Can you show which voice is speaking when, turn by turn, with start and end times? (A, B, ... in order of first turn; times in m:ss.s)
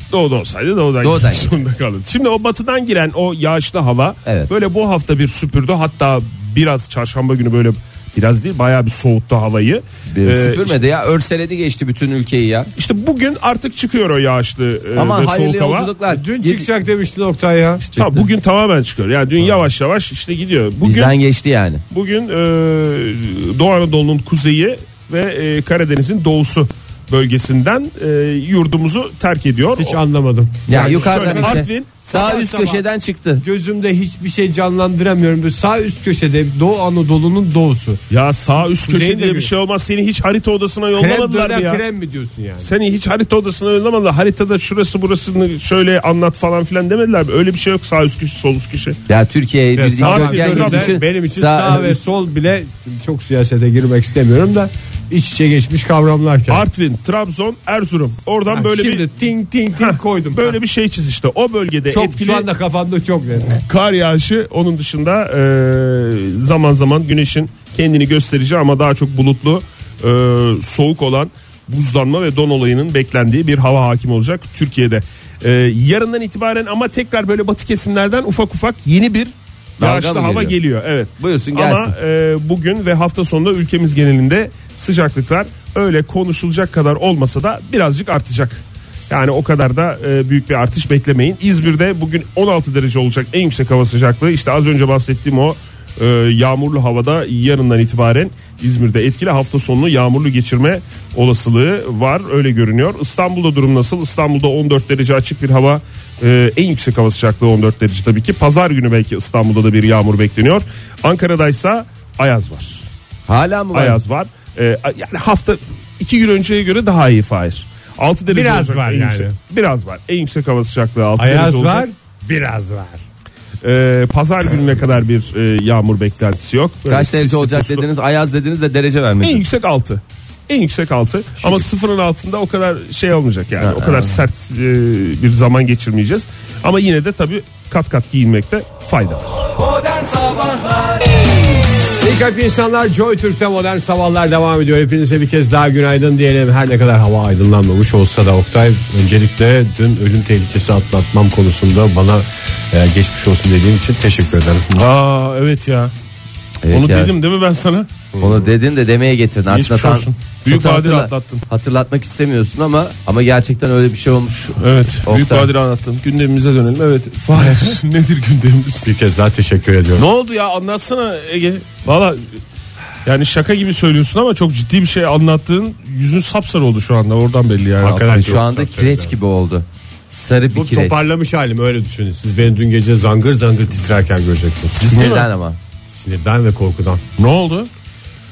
0:00.1-0:10.8 A
0:01.0-0:01.6 B
0:10.1-0:12.7 B
0:12.8-0:15.9 A
0:15.0-0:16.7 B
0:16.1-0:18.2 C
0:17.9-0:21.1 A
0:20.8-0:21.8 B
0:21.9-0:30.0 A
0:29.8-0:32.8 C
0:30.7-0:33.4 B
0:30.7-0:31.9 A
0:33.4-0:38.0 C
0:38.1-0:41.8 A
0:38.6-0:39.5 C
0:40.9-0:42.7 C
0:42.6-0:49.0 A
0:49.1-0:52.0 B
0:49.7-0:56.7 C
0:50.0-0:51.0 A
0:56.5-0:59.0 A
0:58.5-1:00.6 C
0:59.8-1:02.5 A
1:01.9-1:03.6 C
1:03.5-1:52.9 A
1:19.8-1:20.6 B
1:21.2-1:21.9 B
1:53.3-1:54.0 B
1:53.7-2:01.9 A
1:58.3-1:59.4 C
2:01.2-2:03.0 C
2:03.6-2:07.9 A
2:06.9-2:09.4 B
2:09.2-2:19.5 A
2:13.6-2:14.2 B
2:22.0-2:34.7 C
2:34.7-2:35.9 A
2:36.6-2:37.1 B
2:36.7-2:37.9 A
2:38.1-2:38.5 C
2:38.2-2:45.5 B
2:39.5-2:41.4 A
2:44.6-2:48.9 A
2:48.8-2:50.1 C
2:50.0-2:52.2 A
2:53.0-2:58.3 A
2:57.8-2:59.1 C
2:57.8-3:00.9 B
3:00.5-3:04.9 C
3:04.7-3:05.6 B
3:04.8-3:05.3 A
3:05.9-3:07.0 C
3:07.2-3:07.7 A